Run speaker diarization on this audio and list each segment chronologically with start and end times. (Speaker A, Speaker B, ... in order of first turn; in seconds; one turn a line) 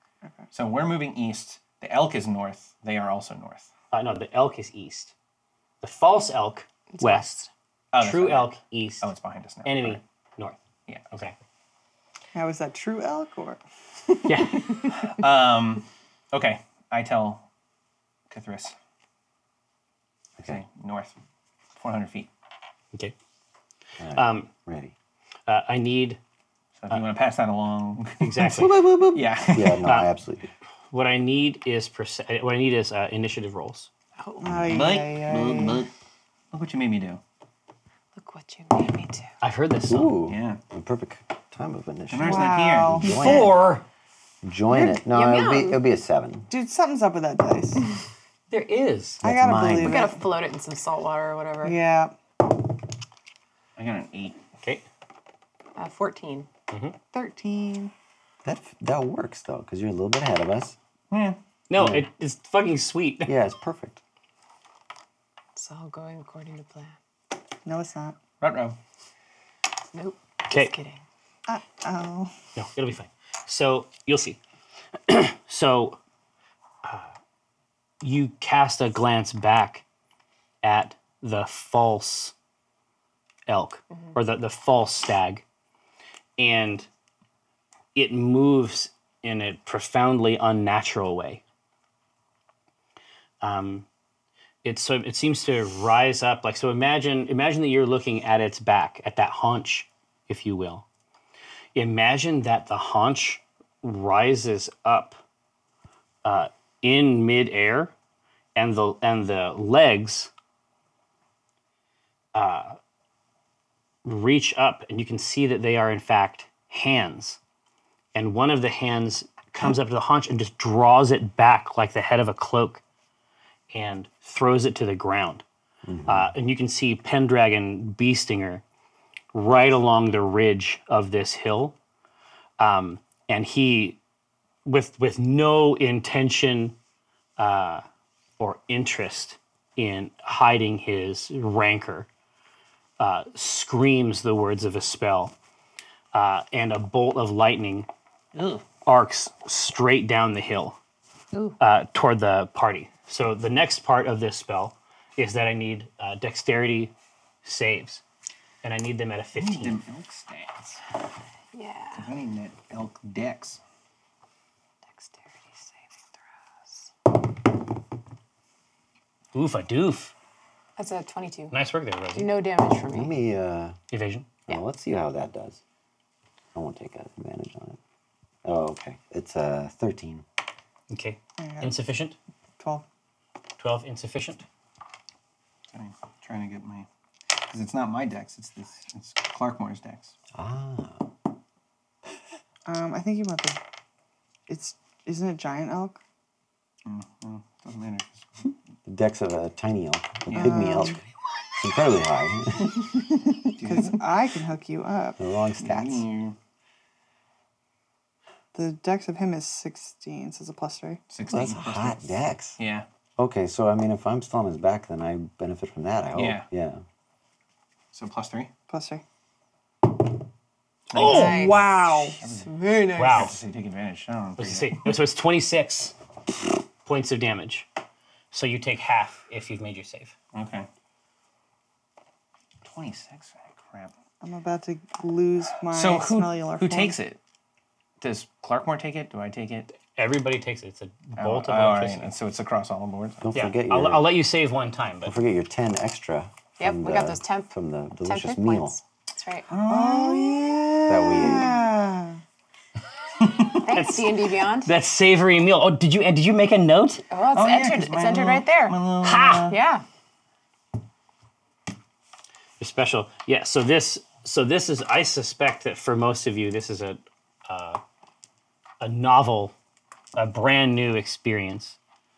Speaker A: 0.5-3.7
Speaker B: 3.9-5.1
Speaker B: 5.8-7.3
Speaker C: 6.9-7.5
Speaker A: 7.9-10.0
Speaker B: 8.0-9.1
Speaker B: 9.6-10.6
Speaker A: 10.9-11.3
Speaker D: 12.3-13.6
Speaker B: 14.3-14.8
Speaker A: 14.9-17.4
Speaker A: 18.3-18.7
Speaker A: 20.4-21.1
Speaker A: 21.8-22.3
Speaker E: 24.0-24.9
Speaker B: 24.1-24.5
Speaker B: 25.5-26.2
Speaker A: 26.8-29.8
Speaker B: 28.2-28.9
Speaker E: 28.5-30.5
Speaker B: 29.8-30.1
Speaker B: 30.9-33.9
Speaker D: 34.4-35.9
Speaker E: 34.4-34.8
Speaker A: 34.7-35.9
Speaker A: 36.5-37.2
Speaker C: 38.1-39.3
Speaker B: 39.4-40.1
Speaker E: 39.9-43.6
Speaker A: 40.3-40.6
Speaker A: 42.1-43.0
Speaker D: 42.2-43.4
Speaker B: 43.0-43.8
Speaker E: 44.4-46.5
Speaker C: 45.0-45.8
Speaker D: 46.5-47.9
Speaker B: 48.5-49.2
Speaker E: 49.2-50.1
Speaker D: 49.2-50.2
Speaker C: 49.8-51.8
Speaker D: 51.6-52.1
Speaker A: 53.8-54.4
Speaker C: 55.8-56.5
Speaker B: 56.7-57.0
Speaker D: 57.1-57.9
Speaker E: 58.4-60.8
Speaker A: 61.1-61.4
Speaker B: 61.7-63.4
Speaker E: 61.8-62.1
Speaker E: 63.2-64.0
Speaker C: 65.5-67.0
Speaker D: 67.6-68.2
Speaker A: 68.4-68.8
Speaker C: 69.9-71.0
Speaker D: 71.5-72.3
Speaker B: 72.5-74.4
Speaker B: 75.1-76.0
Speaker B: 76.8-77.1
Speaker B: 78.0-79.8
Speaker B: 80.6-82.3
Speaker B: 83.5-85.4
Speaker B: 86.4-86.9
Speaker B: 87.9-91.4
Speaker B: 93.4-93.8
Speaker B: 94.6-100.8
Speaker B: 101.7-105.2
Speaker B: 106.2-107.9
Speaker B: 108.5-110.3
Speaker B: 112.3-112.8
Speaker B: 114.0-117.4
Speaker B: 118.1-122.8
Speaker B: 123.7-125.4
Speaker E: 125.8-126.3
Speaker B: 126.1-128.6
Speaker B: 129.3-131.8
Speaker B: 132.6-134.0
Speaker B: 134.6-136.7
Speaker B: 137.4-137.8
Speaker B: 138.4-142.1
Speaker B: 143.0-145.3
Speaker B: 146.1-147.9
Speaker A: 148.3-148.6
Speaker B: 148.6-150.8
Speaker B: 151.6-156.9
Speaker B: 157.4-158.0
Speaker B: 158.6-159.8
Speaker A: 159.3-160.8
Speaker C: 161.5-162.1
Speaker A: 161.9-163.6
Speaker C: 164.9-166.2
Speaker B: 169.3-170.1
Speaker C: 170.8-171.6
Speaker B: 171.5-172.3
Speaker C: 172.1-173.1
Speaker E: 172.9-173.8
Speaker B: 173.9-174.3
Speaker E: 174.5-175.6
Speaker E: 176.5-177.8
Speaker E: 178.4-180.2
Speaker B: 180.9-182.2
Speaker D: 181.4-181.7
Speaker D: 182.6-182.8
Speaker B: 183.6-184.4
Speaker A: 185.7-190.1
Speaker E: 190.3-191.1
Speaker D: 192.7-193.6
Speaker D: 194.5-196.0
Speaker A: 196.8-198.3
Speaker E: 198.8-201.0
Speaker A: 200.3-200.6
Speaker D: 200.3-201.0
Speaker E: 201.5-202.9
Speaker A: 203.6-204.0
Speaker D: 203.6-205.2
Speaker E: 205.2-206.1
Speaker A: 205.6-206.3
Speaker D: 208.5-211.0
Speaker A: 211.1-212.0
Speaker E: 211.3-212.6
Speaker A: 212.6-212.8
Speaker E: 213.2-216.8
Speaker A: 216.1-216.4
Speaker A: 217.9-218.5
Speaker D: 218.7-219.0
Speaker A: 220.9-224.9
Speaker C: 221.0-221.6
Speaker B: 221.0-221.6
Speaker D: 221.0-222.2
Speaker B: 222.9-223.3
Speaker B: 224.4-225.9
Speaker B: 226.8-227.7
Speaker B: 228.3-230.1
Speaker A: 230.3-230.7
Speaker A: 232.6-233.9
Speaker D: 234.2-237.0
Speaker A: 235.7-237.2
Speaker A: 238.0-239.7
Speaker B: 239.9-242.1
Speaker A: 241.2-243.3
Speaker E: 243.2-244.1
Speaker B: 243.3-245.2
Speaker E: 245.0-248.8
Speaker C: 246.6-247.5
Speaker C: 248.0-249.5
Speaker A: 249.5-250.6
Speaker D: 249.6-252.2
Speaker E: 250.9-251.6
Speaker B: 253.6-257.0
Speaker C: 253.6-254.7
Speaker C: 257.1-258.8
Speaker A: 257.3-259.6
Speaker B: 259.0-259.5
Speaker C: 259.5-259.8
Speaker B: 262.6-267.8
Speaker B: 268.8-269.5
Speaker B: 270.1-271.8